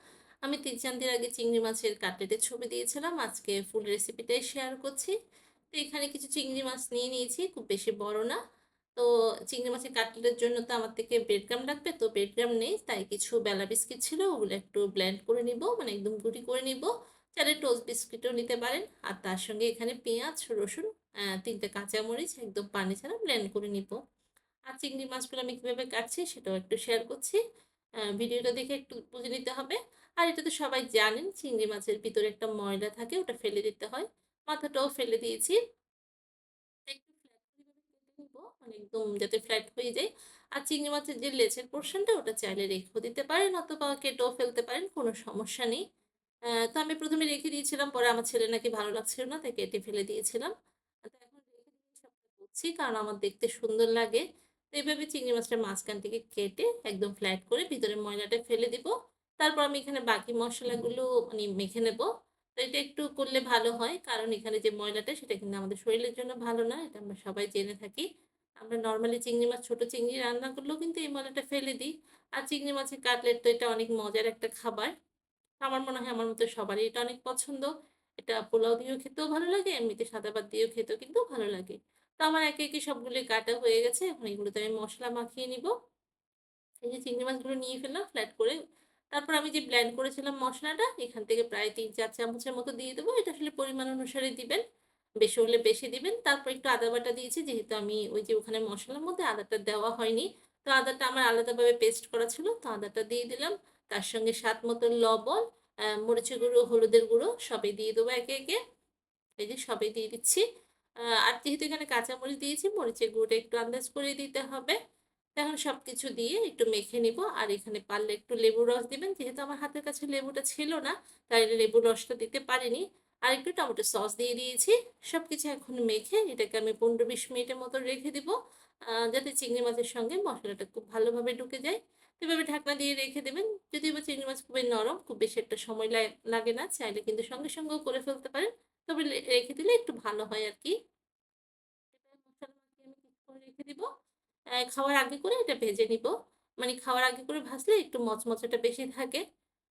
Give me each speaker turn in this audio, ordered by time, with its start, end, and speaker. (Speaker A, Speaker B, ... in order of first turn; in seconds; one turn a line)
Speaker A: 0.4-5.1
Speaker A: 5.7-8.4
Speaker A: 8.9-24.0
Speaker A: 24.7-27.4
Speaker A: 28.2-35.6
Speaker A: 36.9-45.8
Speaker A: 46.7-50.5
Speaker A: 51.1-68.1
Speaker A: 68.6-74.9
Speaker A: 75.6-85.7
Speaker A: 86.8-88.6
Speaker A: 89.1-94.6
Speaker A: 95.2-105.4
Speaker A: 106.0-108.6
Speaker A: 109.4-110.4
Speaker A: 111.2-114.8
Speaker A: 115.4-128.3
Speaker A: 128.9-140.7
Speaker A: 141.9-143.9
Speaker A: 144.7-149.2